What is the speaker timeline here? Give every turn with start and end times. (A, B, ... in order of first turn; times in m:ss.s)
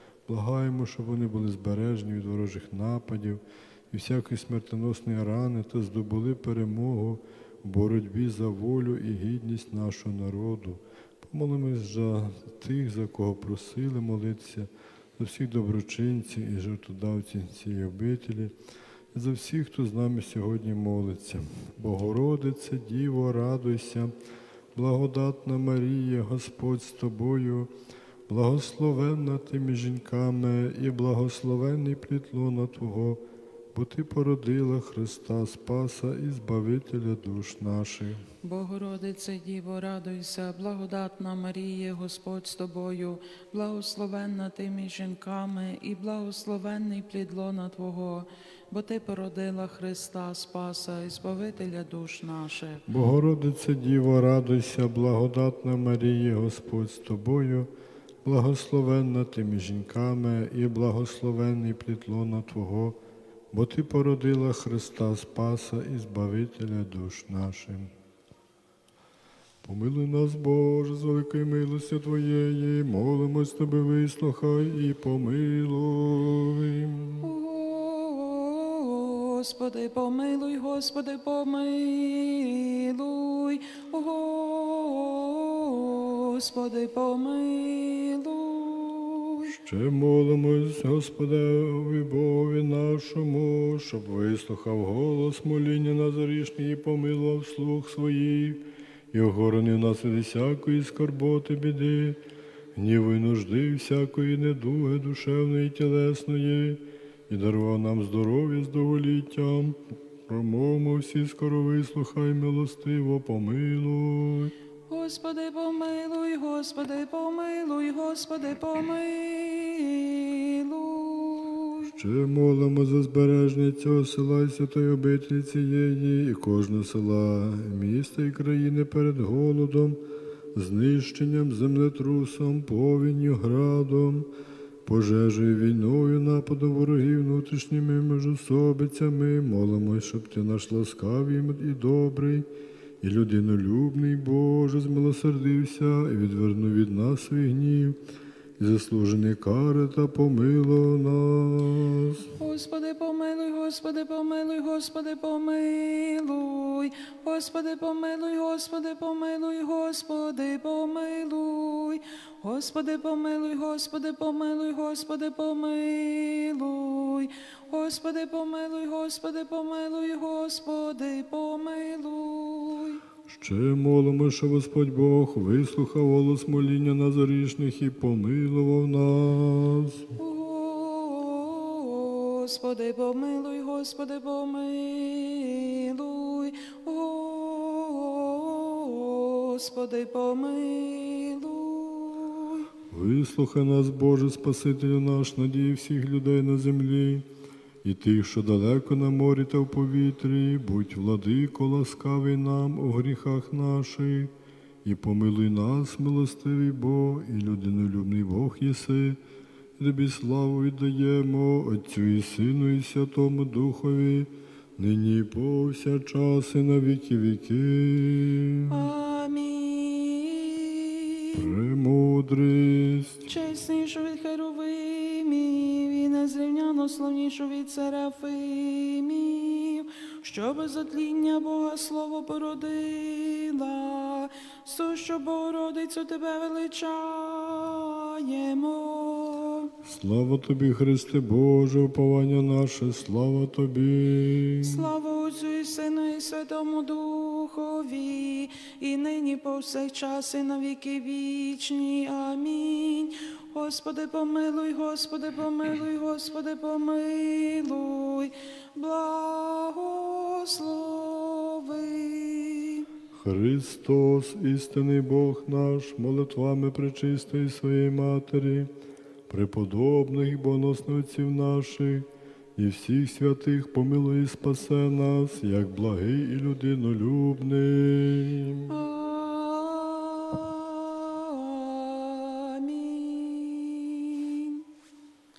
0:00.3-0:18.5 A
0:19.1-0:24.1 A
0:24.7-0:27.7 A
0:28.3-0:33.2 A
0:33.7-0:38.2 A
0:38.4-0:52.8 B
0:52.9-0:57.7 A
0:58.2-1:03.0 A
1:03.5-1:07.9 A
1:09.6-1:17.3 A
1:17.2-1:29.5 B
1:29.5-1:42.2 A
1:42.7-1:54.5 A
1:54.9-2:01.9 B
2:01.8-2:10.0 A
2:10.5-2:14.3 A
2:14.8-2:22.5 A
2:23.0-2:28.0 A
2:28.6-2:32.3 A
2:32.4-2:53.0 B
2:53.3-3:00.1 A
3:00.2-3:12.7 B
3:12.9-3:17.3 A
3:17.8-3:24.3 A
3:24.8-3:29.2 A
3:29.8-3:38.9 A
3:38.7-3:41.5 B
3:41.3-3:43.3 A
3:43.2-3:59.7 B
3:59.8-4:04.9 A
4:04.6-4:22.9 B
4:23.1-4:28.7 A
4:29.3-4:38.7 A
4:38.7-4:44.6 B